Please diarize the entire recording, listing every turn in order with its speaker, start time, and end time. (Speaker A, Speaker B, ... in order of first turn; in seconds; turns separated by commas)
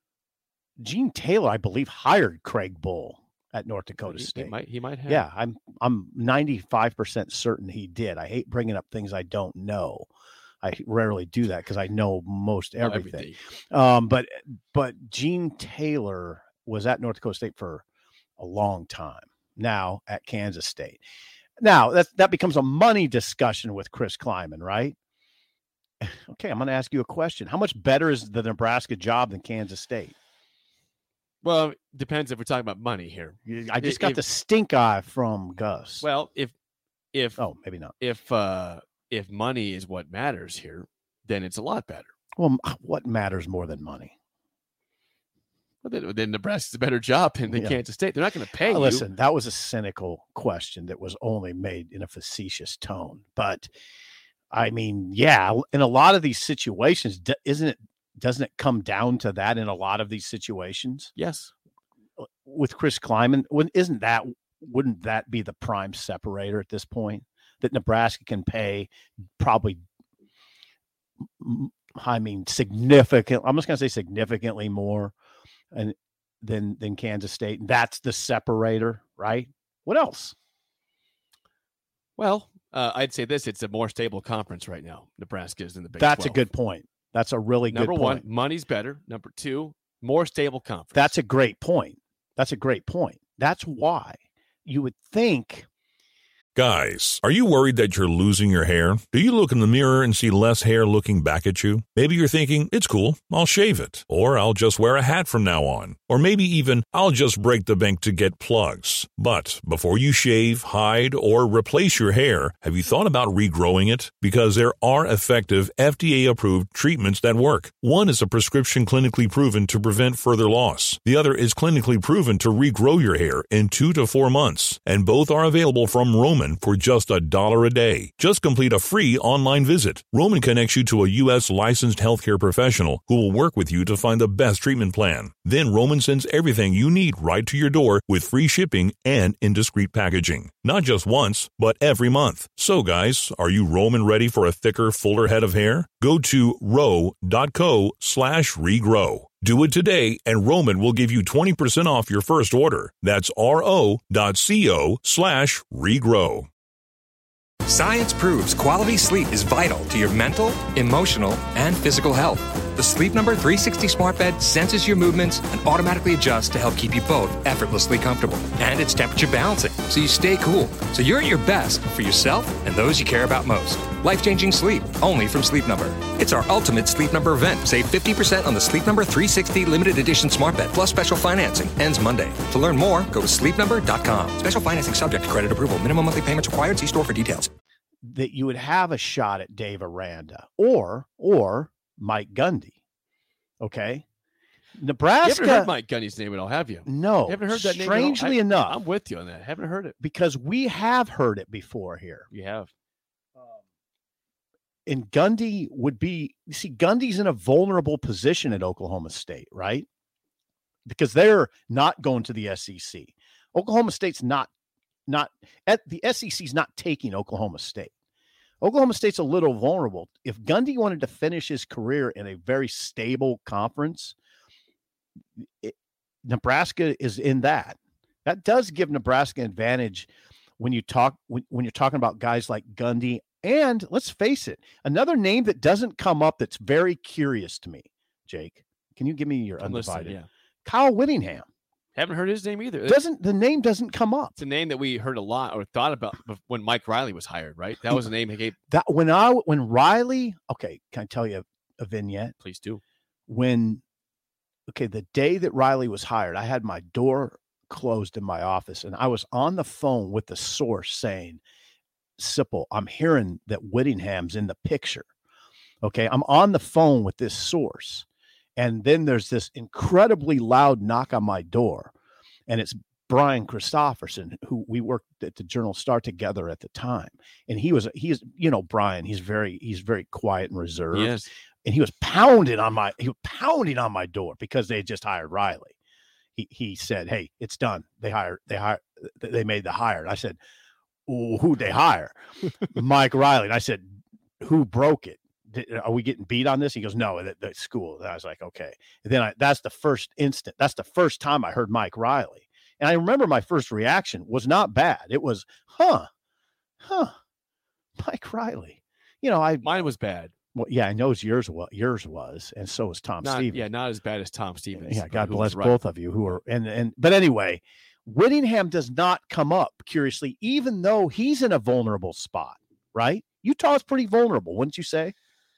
Speaker A: 0.8-4.5, Speaker B: 4.0-5.2, Speaker A: 5.1-10.1, Speaker A: 10.6-17.8, Speaker B: 12.8-13.4, Speaker A: 18.4-21.0, Speaker A: 21.6-24.9, Speaker A: 26.0-30.1, Speaker B: 31.4-34.2, Speaker A: 33.5-36.0, Speaker B: 36.0-36.5, Speaker B: 37.1-37.4, Speaker A: 37.4-37.9, Speaker B: 38.0-42.1, Speaker A: 42.4-44.1, Speaker B: 45.8-49.0, Speaker A: 47.5-47.8, Speaker A: 48.6-53.7, Speaker A: 54.5-61.1, Speaker B: 61.2-61.5, Speaker A: 62.4-69.8, Speaker A: 71.4-75.1, Speaker A: 75.7-80.3, Speaker B: 82.2-86.4, Speaker A: 86.0-88.2, Speaker B: 87.7-91.1, Speaker A: 90.9-95.7, Speaker C: 96.5-156.5, Speaker D: 157.6-187.5, Speaker A: 188.0-192.8, Speaker A: 193.6-194.0, Speaker A: 194.8-195.7, Speaker B: 195.2-199.9, Speaker A: 196.8-198.8, Speaker A: 200.0-202.3, Speaker B: 202.3-202.7, Speaker A: 204.8-209.9, Speaker A: 210.8-214.5, Speaker A: 215.1-217.9, Speaker A: 218.6-224.1, Speaker A: 225.4-241.5, Speaker B: 239.6-240.3, Speaker B: 241.9-243.0, Speaker A: 242.8-244.4, Speaker B: 244.4-248.6, Speaker A: 248.7-252.3, Speaker B: 252.4-252.8, Speaker A: 253.3-253.8, Speaker A: 254.7-261.4, Speaker A: 262.2-265.1, Speaker A: 265.8-268.1, Speaker A: 268.6-271.9, Speaker A: 272.5-285.8, Speaker B: 280.9-281.3, Speaker A: 286.3-290.4, Speaker A: 291.1-292.1, Speaker A: 292.7-306.1, Speaker A: 306.8-307.1, Speaker A: 308.0-309.8, Speaker B: 309.6-310.3, Speaker A: 310.5-313.6, Speaker B: 313.2-315.8, Speaker A: 314.8-325.1